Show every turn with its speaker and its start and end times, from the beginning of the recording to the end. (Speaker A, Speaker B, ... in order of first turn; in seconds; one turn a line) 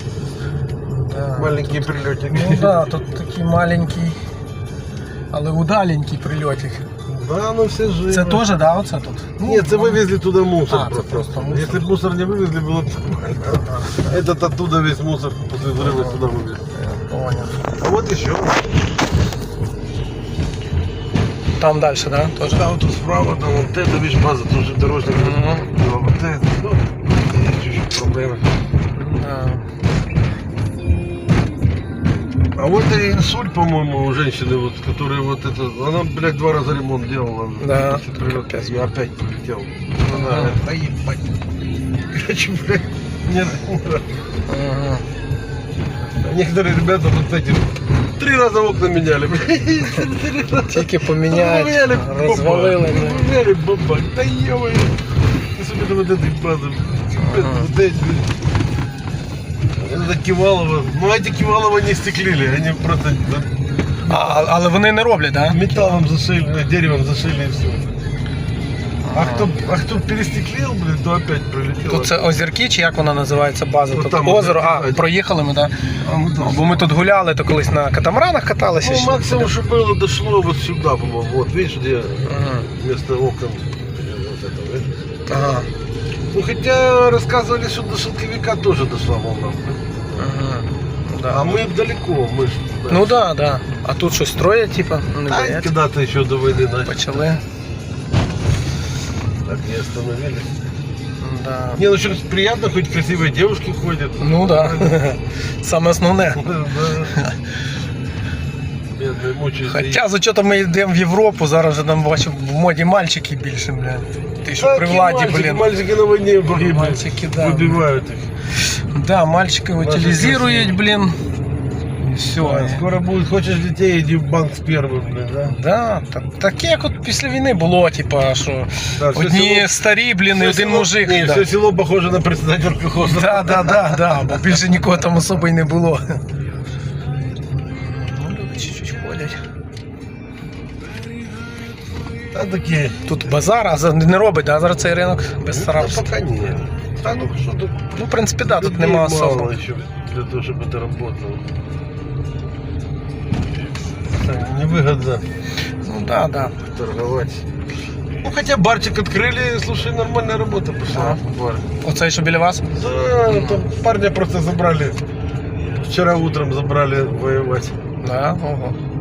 Speaker A: 0.9-4.2
Speaker B: 1.4-3.1
Speaker A: 5.3-6.9
Speaker B: 7.1-8.5
Speaker A: 8.1-10.1
Speaker B: 9.4-16.6
Speaker A: 10.7-11.9
Speaker A: 13.5-14.1
Speaker A: 15.8-16.2
Speaker A: 16.7-17.6
Speaker B: 17.7-18.7
Speaker A: 21.6-22.7
Speaker B: 22.4-28.5
Speaker A: 25.1-25.7
Speaker A: 28.9-29.6
Speaker B: 32.5-41.3
Speaker A: 37.6-38.8
Speaker A: 40.1-40.6
Speaker B: 42.1-44.1
Speaker A: 44.5-45.0
Speaker B: 46.1-55.0
Speaker A: 50.6-53.3
Speaker B: 55.5-58.3
Speaker A: 57.2-57.7
Speaker B: 59.7-64.5
Speaker A: 64.0-65.9
Speaker B: 65.5-68.0
Speaker A: 69.0-69.5
Speaker B: 69.1-72.3
Speaker A: 71.9-79.5
Speaker B: 73.9-75.0
Speaker B: 76.0-76.9
Speaker B: 78.8-85.6
Speaker A: 82.3-82.7
Speaker A: 85.3-85.7
Speaker B: 86.3-90.3
Speaker A: 90.2-91.7
Speaker B: 91.3-93.2
Speaker A: 92.9-95.7
Speaker B: 95.3-97.3
Speaker A: 96.8-97.4
Speaker B: 99.4-100.5
Speaker A: 101.2-101.8
Speaker B: 101.8-105.0
Speaker A: 104.2-107.4
Speaker B: 106.3-107.2
Speaker B: 108.9-110.0
Speaker A: 109.7-115.7
Speaker B: 114.5-118.3
Speaker A: 116.5-117.8
Speaker A: 118.6-121.2
Speaker B: 119.8-120.8
Speaker A: 122.0-122.8
Speaker B: 122.4-125.6
Speaker A: 125.5-131.5
Speaker B: 129.0-129.8
Speaker B: 130.3-134.4
Speaker A: 133.0-136.2
Speaker A: 137.7-139.4
Speaker B: 142.3-143.3
Speaker A: 143.1-146.1
Speaker B: 145.5-147.9
Speaker A: 147.9-149.5
Speaker B: 148.4-151.5
Speaker B: 154.1-155.3
Speaker A: 155.8-156.5
Speaker B: 156.6-157.5
Speaker B: 158.2-161.6
Speaker A: 160.9-161.2
Speaker A: 161.8-162.7
Speaker B: 162.7-165.0
Speaker A: 163.3-163.7
Speaker B: 165.7-167.8
Speaker A: 168.0-168.8